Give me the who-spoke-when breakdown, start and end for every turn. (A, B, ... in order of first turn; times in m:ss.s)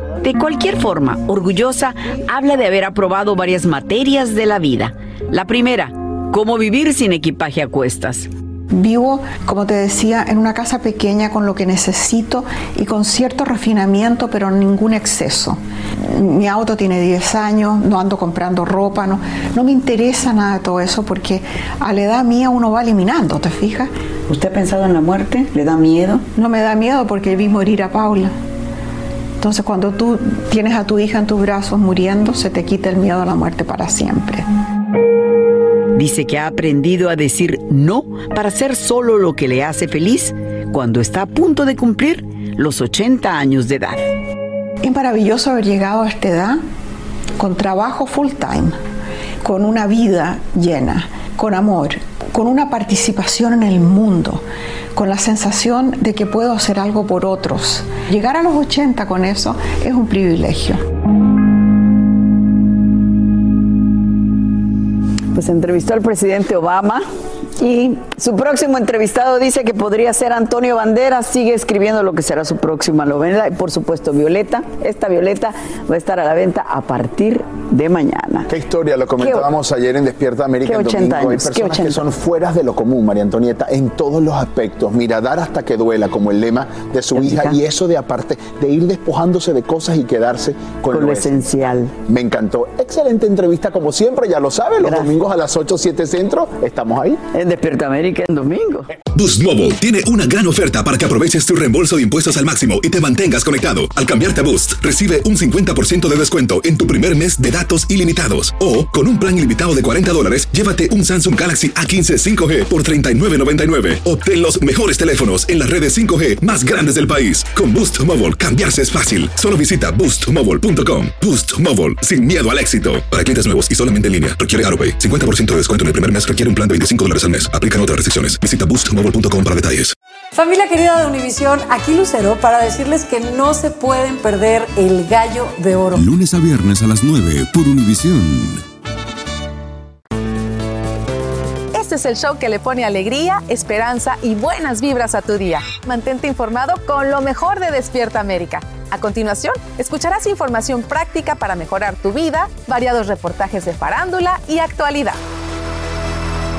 0:00.2-0:08.3 A
0:08.7-0:23.9 B
0:24.3-0:26.3 A
0:26.4-0:28.4 B
0:29.4-0:34.4 B
0:36.0-0:44.1 A
0:44.8-0:46.6 B
0:47.4-0:48.8 B
0:49.4-0:54.4 B
0:55.0-1:00.8 B
1:05.3-1:07.1 A
1:07.6-1:18.5 A
1:18.5-1:31.5 C
1:19.2-1:19.5 A
1:20.6-1:22.0 A
1:27.2-1:27.6 A
1:30.9-1:32.0 A
1:32.0-1:37.2 C
1:34.8-1:35.1 A
1:37.3-1:38.9 A
1:39.2-2:09.9 D
2:10.3-2:16.0 E
2:16.0-2:18.6 F
2:21.7-2:35.2 G